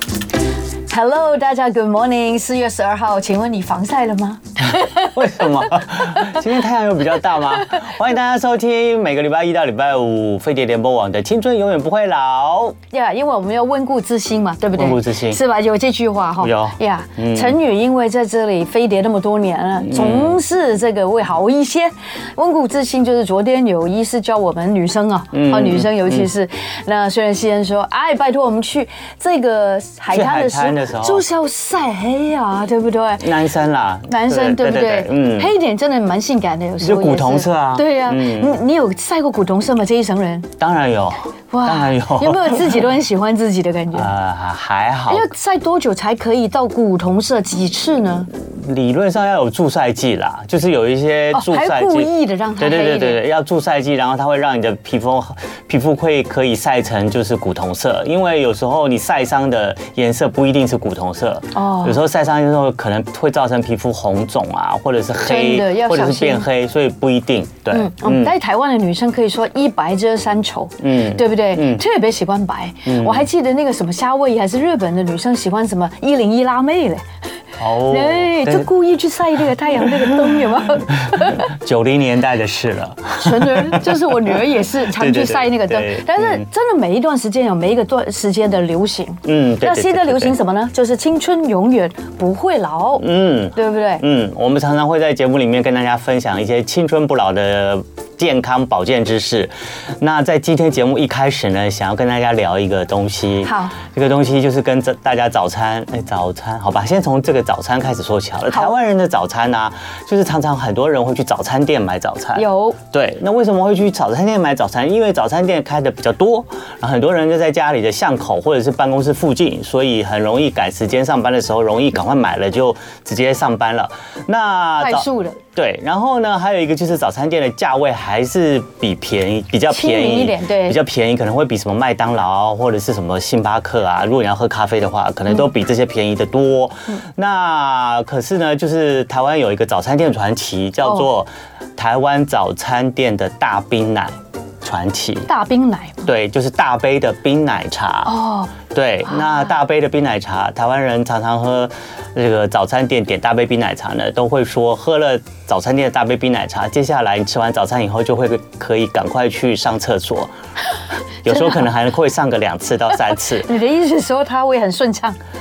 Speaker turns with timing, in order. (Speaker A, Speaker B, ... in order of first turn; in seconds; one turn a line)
Speaker A: 0.9-5.7
Speaker B: 4.7-12.8
Speaker A: 12.9-33.3
Speaker B: 14.8-15.4
Speaker B: 16.4-17.6
Speaker B: 19.8-20.4
Speaker B: 25.3-26.3
Speaker B: 30.1-31.2
Speaker B: 33.2-35.5
Speaker A: 34.1-40.5
Speaker B: 36.8-38.6
Speaker B: 40.6-42.7
Speaker A: 41.5-44.1
Speaker B: 43.9-45.3
Speaker A: 45.1-48.3
Speaker B: 48.6-68.3
Speaker A: 51.3-53.2
Speaker A: 61.5-62.0
Speaker A: 65.2-66.5
Speaker A: 67.7-77.0
Speaker B: 70.8-71.8
Speaker B: 72.8-73.3
Speaker B: 77.6-78.7
Speaker A: 77.9-81.5
Speaker B: 79.8-80.2
Speaker B: 80.9-84.0
Speaker A: 83.2-94.0
Speaker B: 84.9-86.5
Speaker B: 89.2-90.3
Speaker B: 93.0-145.3
Speaker A: 103.4-103.8
Speaker A: 112.4-112.8
Speaker A: 124.8-125.4
Speaker A: 129.7-130.8
Speaker A: 145.3-146.1
Speaker B: 146.1-148.1
Speaker A: 148.1-148.5
Speaker B: 148.7-160.3
Speaker A: 149.1-149.6
Speaker B: 161.2-163.5
Speaker A: 161.3-161.7
Speaker A: 163.1-165.2